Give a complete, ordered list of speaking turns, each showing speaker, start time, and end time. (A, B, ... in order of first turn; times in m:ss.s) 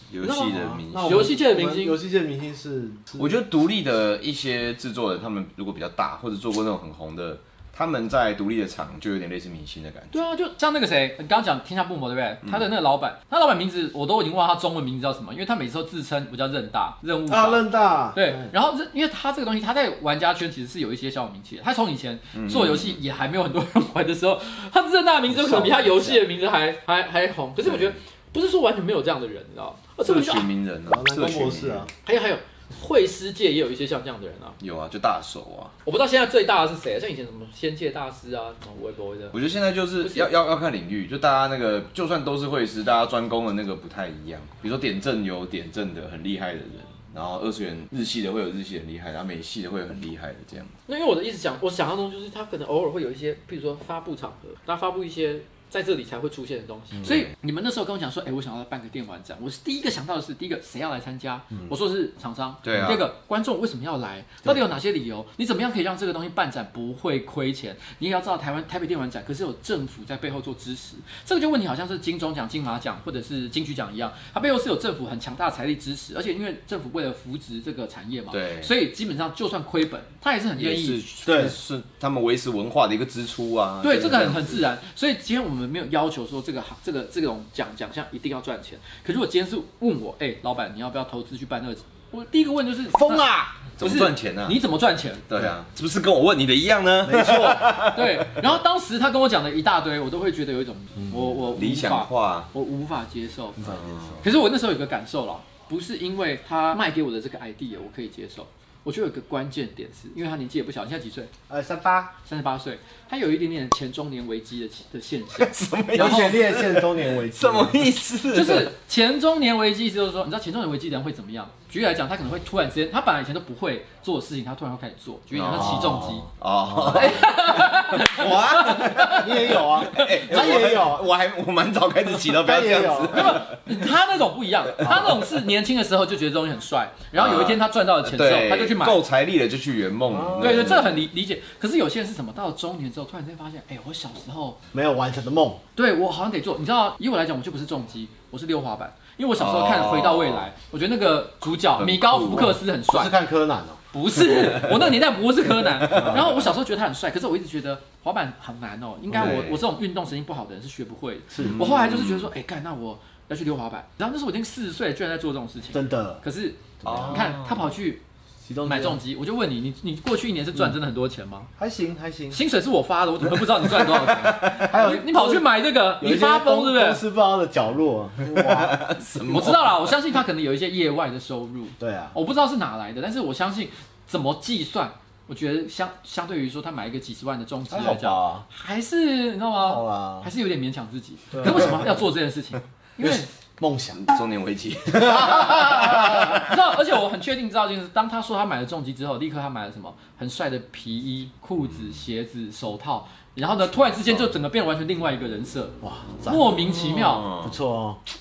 0:00.1-0:01.3 A
0:00.2-0:03.4 B
0:01.0-0:02.0 C
0:03.2-0:10.2 A
0:10.1-0:30.5 C
0:17.3-0:18.5 B
0:22.3-0:23.0 A
0:25.3-0:26.2 B
0:27.6-0:27.9 A
0:30.0-0:31.9 A
0:30.9-0:31.9 B
0:32.0-0:34.6 C
0:34.6-0:35.7 A
0:35.8-0:39.4 C
0:39.3-0:50.8 A
0:40.0-0:40.3 C
0:50.9-1:21.5 C
0:57.0-0:57.3 A
1:02.6-1:03.0 A
1:18.3-1:18.7 A
1:20.6-1:24.6 A
1:21.2-1:21.6 B
1:23.8-1:35.3 C
1:32.9-1:33.7 B
1:33.8-1:34.6 A
1:35.3-1:38.4 A
1:37.0-1:37.8 B
1:37.8-1:43.6 C
1:41.5-1:42.5 A
1:43.6-1:44.3 B
1:43.6-1:44.2 A
1:44.2-1:51.3 C
1:51.5-1:52.1 B
1:52.2-1:56.4 C
1:55.4-1:58.7 A
1:55.9-1:57.9 B
1:58.3-2:06.3 C
2:05.3-2:13.7 A
2:05.5-2:06.2 B
2:06.8-2:07.1 B
2:06.9-2:10.2 C
2:09.1-2:11.1 B
2:12.3-2:13.4 B
2:13.1-2:19.0 C
2:14.8-2:15.2 A
2:17.2-2:21.0 A
2:20.1-2:20.8 B
2:20.4-2:24.6 C
2:24.7-2:25.6 B
2:25.8-2:33.1 C
2:29.4-2:30.5 A
2:31.8-2:32.6 A
2:32.4-2:33.8 B
2:33.9-2:48.0 C
2:35.9-2:36.2 A
2:35.9-2:36.3 B
2:39.1-2:39.6 A
2:41.3-2:41.6 B
2:41.4-2:42.3 A
2:45.7-2:46.2 B
2:46.8-2:47.3 B
2:46.8-2:47.7 A
2:48.4-2:49.0 B
2:48.6-2:51.5 C
2:51.6-2:52.4 B
2:52.3-2:57.0 C
2:53.8-2:54.6 A
2:54.4-2:55.5 B
2:56.0-2:58.9 B
2:58.4-2:59.9 A
2:59.2-3:13.3 C
3:01.8-3:02.1 B
3:07.7-3:08.4 B
3:09.6-3:10.3 B
3:11.3-3:12.0 B
3:13.0-3:14.0 B
3:14.0-3:16.4 A
3:14.9-3:16.4 B
3:15.1-3:27.3 C
3:25.8-3:26.7 B
3:26.9-3:27.5 A
3:27.3-3:28.0 B